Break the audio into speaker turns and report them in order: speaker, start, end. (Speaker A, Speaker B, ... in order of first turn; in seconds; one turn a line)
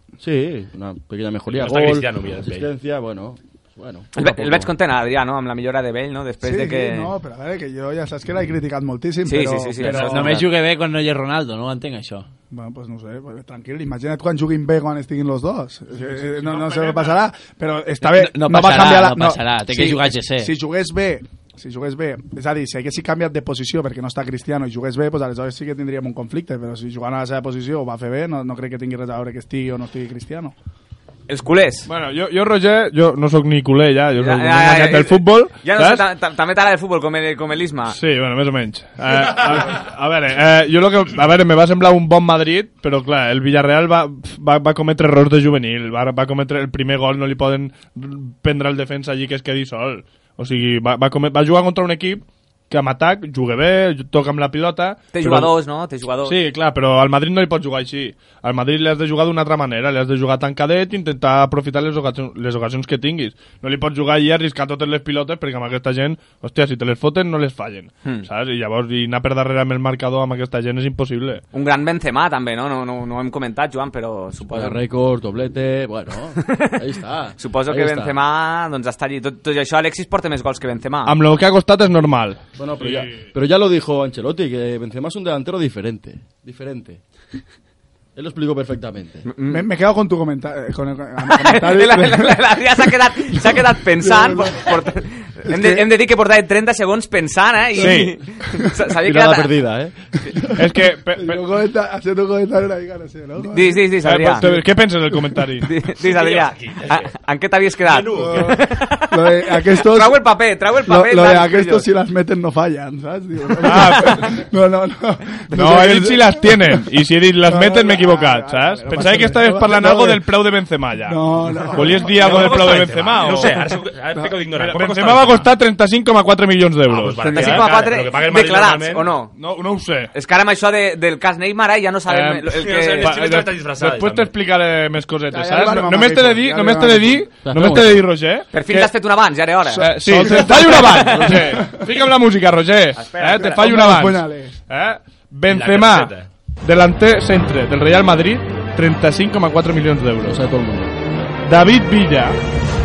Speaker A: 0.2-4.7
Speaker B: 1.5-2.7
Speaker C: 4.2-7.1
Speaker D: 6.4-10.4
Speaker C: 9.2-10.5
Speaker E: 9.8-12.3
Speaker D: 12.5-30.6
Speaker B: 16.3-17.2
Speaker E: 18.0-20.5
Speaker C: 31.3-31.9
Speaker F: 31.9-36.0
Speaker C: 34.2-38.0
Speaker F: 37.9-55.5
Speaker C: 55.1-56.4
Speaker F: 56.3-71.4
Speaker C: 71.5-74.8
Speaker A: 74.5-78.2
Speaker C: 76.4-76.7
Speaker C: 77.4-81.2
Speaker F: 81.0-83.3
Speaker A: 82.6-87.0
Speaker A: 88.2-89.3
Speaker C: 89.3-89.7
Speaker D: 89.5-92.4
Speaker C: 91.2-99.5
Speaker D: 93.3-94.8
Speaker D: 95.5-95.9
Speaker F: 97.8-98.2
Speaker A: 99.0-100.5
Speaker F: 100.6-101.4
Speaker D: 101.2-103.8
Speaker C: 103.4-104.5
Speaker F: 104.0-105.7
Speaker C: 105.6-111.9
Speaker B: 106.0-107.1
Speaker B: 107.8-108.6
Speaker D: 108.2-108.6
Speaker D: 109.1-110.2
Speaker D: 110.9-116.9
Speaker F: 113.6-114.3
Speaker C: 113.7-114.2
Speaker F: 115.5-123.6
Speaker D: 117.4-120.2
Speaker D: 121.0-122.5
Speaker B: 122.0-125.5
Speaker F: 124.5-127.7
Speaker B: 126.9-129.1
Speaker C: 127.3-129.4
Speaker F: 129.4-130.1
Speaker C: 130.1-133.1
Speaker F: 132.1-138.9
Speaker B: 132.6-134.3
Speaker D: 135.3-137.3
Speaker A: 137.4-138.1
Speaker C: 138.5-141.4
Speaker D: 139.7-141.0
Speaker F: 139.8-150.4
Speaker A: 141.1-141.5
Speaker D: 141.6-141.8
Speaker C: 142.9-143.6
Speaker D: 143.4-144.6
Speaker B: 145.5-146.3
Speaker A: 150.2-150.9
Speaker F: 151.5-152.4